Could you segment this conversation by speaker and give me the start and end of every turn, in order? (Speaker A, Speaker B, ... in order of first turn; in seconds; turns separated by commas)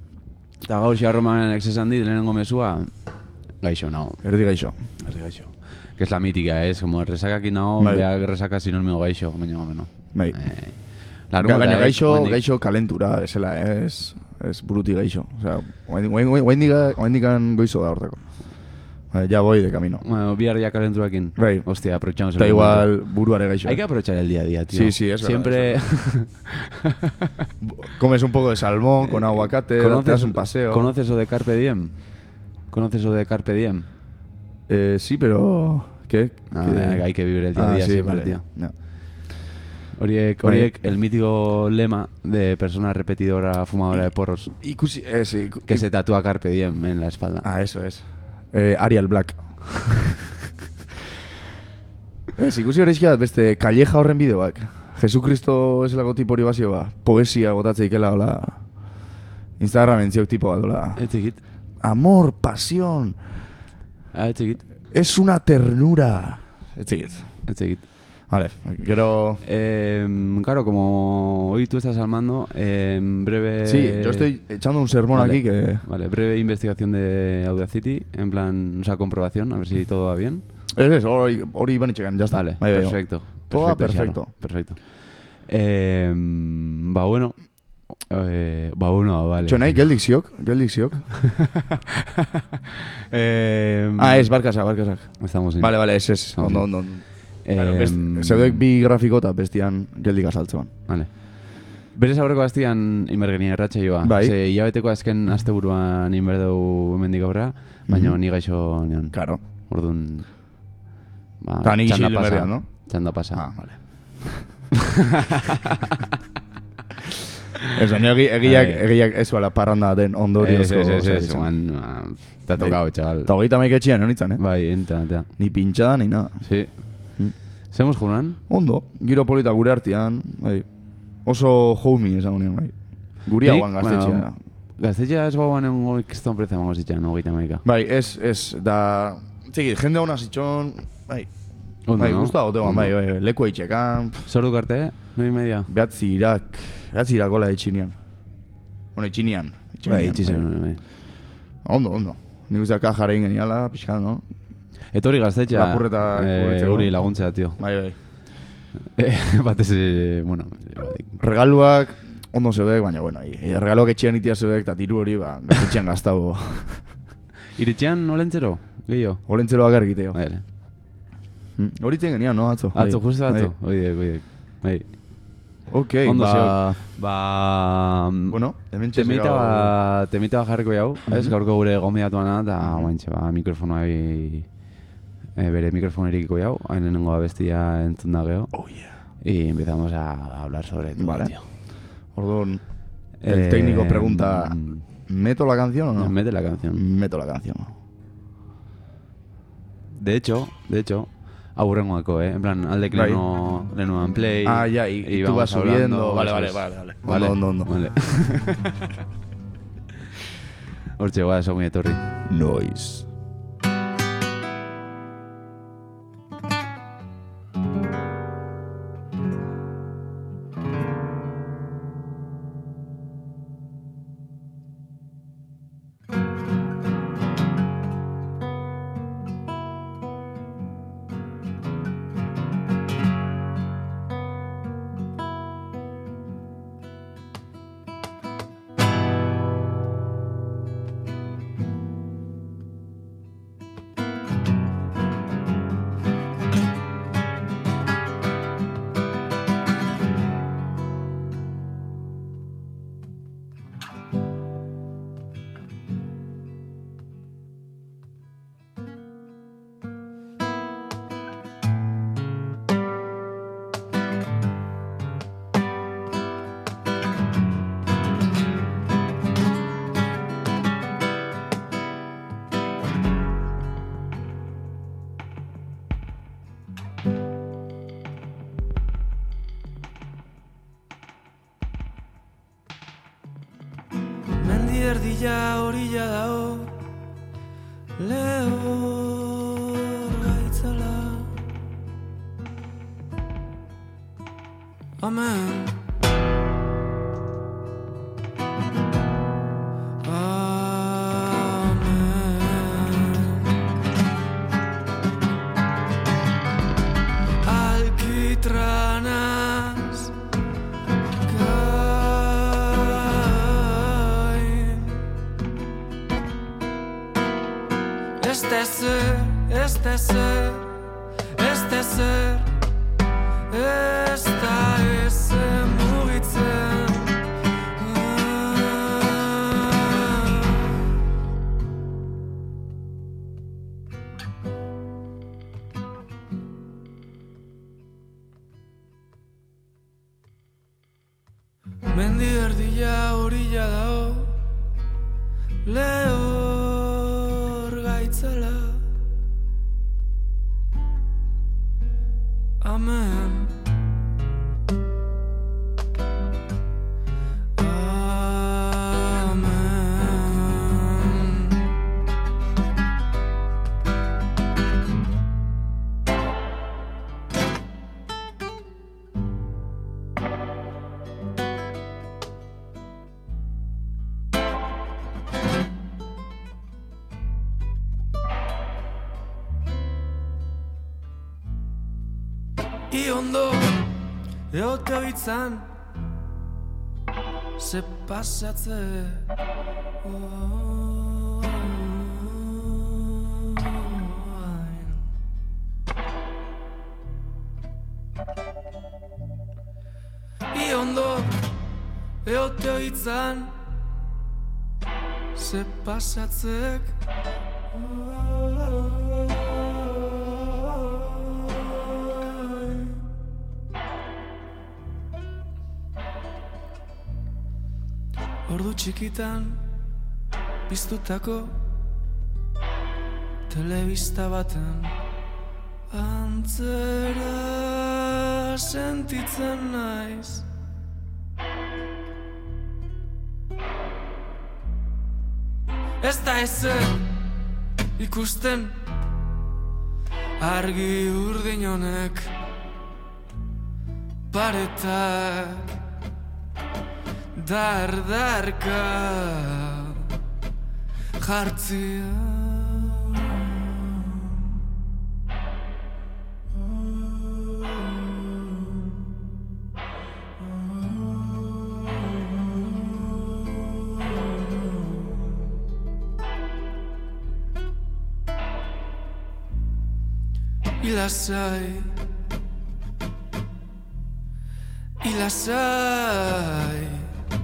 Speaker A: 0.6-4.2, Speaker B: 4.2-4.7, Speaker A: 5.0-12.4, Speaker B: 7.8-8.1, Speaker B: 10.1-18.4, Speaker B: 19.1-20.0, Speaker A: 20.0-23.0, Speaker B: 21.4-23.8, Speaker A: 23.6-26.9, Speaker B: 24.7-25.8, Speaker B: 27.6-30.9, Speaker A: 29.0-33.9, Speaker B: 34.7-38.7, Speaker A: 36.5-38.4, Speaker A: 40.0-44.5, Speaker B: 40.4-40.9, Speaker B: 43.9-45.8, Speaker A: 45.7-47.5, Speaker B: 47.4-50.1, Speaker B: 52.4-59.0, Speaker B: 59.6-61.0, Speaker A: 61.0-61.4, Speaker B: 61.8-63.2, Speaker A: 64.1-64.6, Speaker B: 64.9-67.5, Speaker A: 67.5-67.8, Speaker B: 68.3-69.4, Speaker A: 69.4-74.3, Speaker B: 73.6-75.8, Speaker A: 75.1-80.4, Speaker B: 80.7-84.3, Speaker A: 82.3-89.8, Speaker B: 89.4-91.3, Speaker A: 91.2-91.5, Speaker A: 93.1-94.3, Speaker B: 94.0-100.7, Speaker A: 95.2-98.6, Speaker A: 100.9-110.4, Speaker B: 104.0-104.3, Speaker B: 107.9-109.4, Speaker A: 111.4-113.9, Speaker B: 111.6-114.4, Speaker B: 117.7-121.5, Speaker A: 118.4-118.8, Speaker A: 120.4-123.3, Speaker B: 122.6-124.4, Speaker A: 124.4-125.3, Speaker B: 125.4-126.5, Speaker A: 126.4-127.1, Speaker A: 127.7-128.4, Speaker B: 128.5-134.3, Speaker A: 133.4-137.6, Speaker B: 137.6-144.2, Speaker A: 141.9-142.9, Speaker A: 144.2-145.7, Speaker B: 145.7-148.0, Speaker B: 148.9-150.5, Speaker A: 149.8-150.8, Speaker B: 151.6-154.2, Speaker A: 154.9-157.6, Speaker B: 155.5-158.0, Speaker A: 158.9-161.2, Speaker B: 161.2-166.9, Speaker A: 167.6-169.3, Speaker B: 169.3-170.2, Speaker A: 170.1-170.4, Speaker B: 171.6-173.5, Speaker A: 172.7-174.9, Speaker B: 175.7-176.8, Speaker A: 176.0-178.4, Speaker B: 178.3-179.7, Speaker A: 178.9-184.5, Speaker B: 181.1-181.3, Speaker B: 182.6-182.9, Speaker A: 185.3-191.4, Speaker B: 188.5-188.9, Speaker B: 190.9-197.7, Speaker A: 193.2-194.8, Speaker A: 196.0-196.8, Speaker A: 199.9-208.8, Speaker B: 202.9-203.2, Speaker B: 204.4-208.2, Speaker A: 211.0-212.1, Speaker B: 212.2-213.1, Speaker C: 284.4-286.8, Speaker C: 288.0-291.3, Speaker C: 295.0-295.8, Speaker C: 300.0-303.6, Speaker C: 307.4-310.1, Speaker C: 311.2-315.0, Speaker C: 318.2-320.7, Speaker C: 321.3-322.5, Speaker C: 323.5-327.2, Speaker C: 327.8-330.6, Speaker C: 341.9-344.3, Speaker C: 345.6-348.8, Speaker C: 352.6-353.5, Speaker C: 357.6-361.7, Speaker C: 382.9-383.8, Speaker C: 384.5-385.7, Speaker C: 387.6-389.3, Speaker C: 390.0-395.0, Speaker C: 400.5-401.4, Speaker C: 402.2-403.5, Speaker C: 405.3-406.9, Speaker C: 408.0-409.0, Speaker C: 418.5-419.6, Speaker C: 420.7-421.5, Speaker C: 423.5-424.9, Speaker C: 425.9-430.4, Speaker C: 436.0-437.1, Speaker C: 438.0-438.8, Speaker C: 440.4-442.3, Speaker C: 444.3-445.7, Speaker C: 447.3-450.1, Speaker C: 451.2-453.4, Speaker C: 470.8-471.9, Speaker C: 475.0-477.1